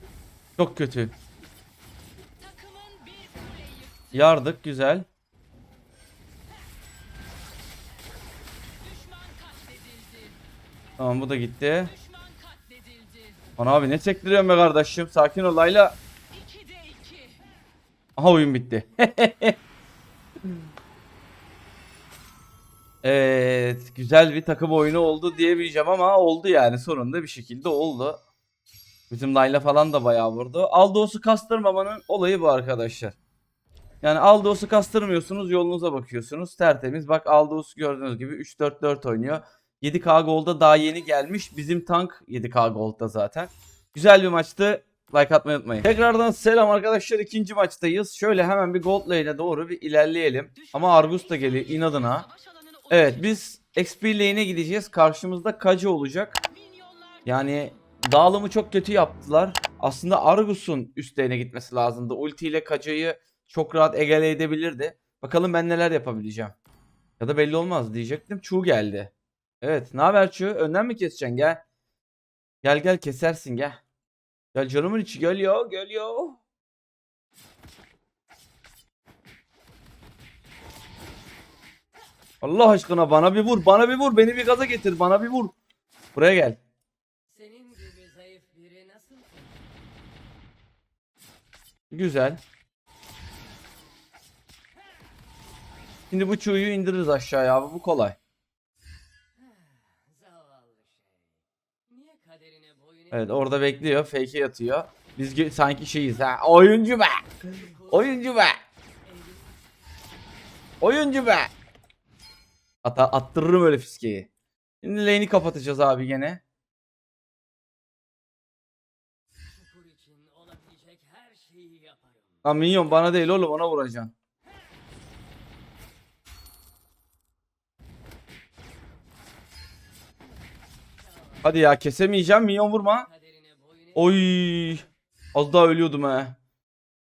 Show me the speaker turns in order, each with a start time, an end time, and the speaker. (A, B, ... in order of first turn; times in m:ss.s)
0:00.6-0:01.1 A
0:02.4-0:04.4 B
0:04.1-0:05.0 A
0:08.8-0:10.4 B
0:11.0-0:11.9 A
0:11.8-0:13.4 B
0:13.6-0:16.0 A
0:16.3-0:17.4 B
0:18.2-0:19.6 A
0:23.0-0:28.2 A
0:29.1-0:33.2 A
0:34.0-0:52.2 A
0:50.6-0:53.6 B
0:52.9-0:56.4 A
0:56.5-0:57.4 B
0:57.2-1:06.5 A
1:07.2-1:11.6 A
1:12.6-1:13.8 A
1:14.5-1:16.4 A
1:22.4-1:25.5 A
1:26.1-1:26.6 A
1:27.3-1:30.1 C
1:31.9-1:32.4 A
1:36.1-1:38.2 A
1:39.4-1:41.3 C
1:41.9-1:43.4 C
1:43.1-1:48.6 A
1:47.4-1:49.9 C
1:50.8-1:51.5 A
1:52.8-1:54.3 A
1:54.8-1:56.4 A
1:59.4-2:02.4 C
2:02.4-2:04.1 A
2:10.9-2:11.5 C
2:11.4-2:13.1 A
2:13.0-2:14.2 C
2:13.9-2:16.4 A